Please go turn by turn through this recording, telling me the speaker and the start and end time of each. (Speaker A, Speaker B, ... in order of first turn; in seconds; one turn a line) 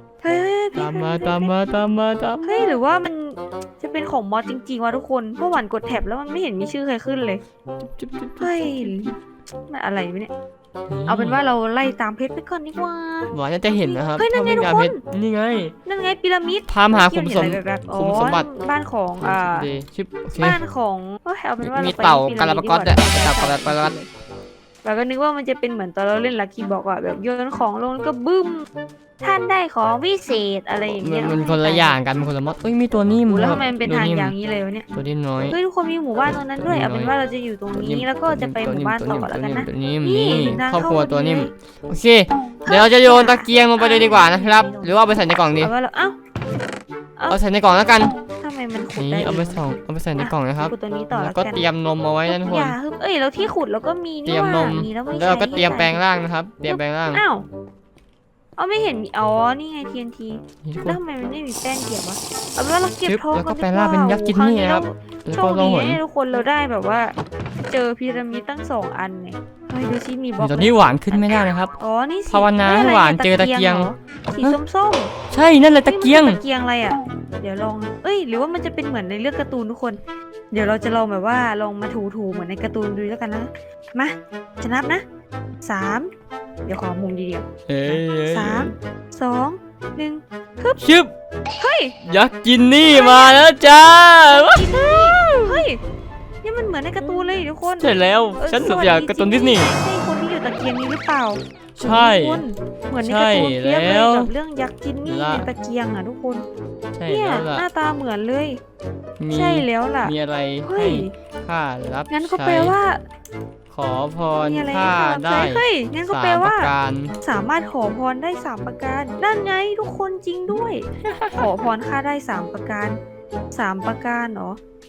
Speaker A: 0.2-1.5
Speaker B: 0.8-2.5
Speaker A: 2.4-7.4
Speaker B: 7.8-9.1
Speaker A: 8.4-9.1
Speaker A: 9.7-10.3
Speaker B: 10.9-11.4
Speaker A: 11.1-13.3
Speaker B: 13.3-15.7
Speaker A: 13.8-15.0
Speaker A: 15.8-19.7
Speaker B: 16.7-18.4
Speaker B: 19.2-20.6
Speaker A: 20.4-24.1
Speaker B: 21.6-24.0
Speaker A: 24.8-28.7
Speaker A: 29.2-31.9
Speaker B: 31.0-34.3
Speaker A: 33.3-34.9
Speaker B: 34.9-35.5
Speaker A: 35.5-41.5
Speaker B: 36.6-37.1
Speaker B: 37.7-45.7
Speaker A: 42.6-44.9
Speaker A: 45.6-46.2
Speaker B: 47.3-48.1
Speaker A: 48.4-49.6
Speaker B: 49.0-52.8
Speaker A: 50.1-51.6
Speaker A: 52.2-56.0
Speaker B: 54.2-57.2
Speaker A: 56.7-57.5
Speaker A: 58.6-67.2
Speaker B: 60.6-61.0
Speaker B: 63.0-66.0
Speaker A: 67.7-75.1
Speaker B: 70.4-71.7
Speaker B: 72.3-74.5
Speaker B: 75.3-76.4
Speaker A: 75.8-85.0
Speaker A: 85.6-86.1
Speaker A: 86.6-90.8
Speaker B: 87.7-88.8
Speaker B: 90.8-91.1
Speaker A: 91.6-92.0
Speaker B: 92.0-95.7
Speaker A: 92.8-93.5
Speaker A: 94.3-95.8
Speaker A: 96.4-106.5
Speaker B: 97.8-99.7
Speaker B: 101.8-102.4
Speaker B: 103.0-104.3
Speaker B: 105.0-105.5
Speaker B: 107.0-107.6
Speaker A: 107.1-108.6
Speaker B: 109.2-112.8
Speaker A: 109.3-110.1
Speaker A: 110.6-111.1
Speaker A: 112.1-113.0
Speaker B: 113.7-117.1
Speaker A: 114.4-123.0
Speaker B: 121.1-121.4
Speaker A: 123.5-124.6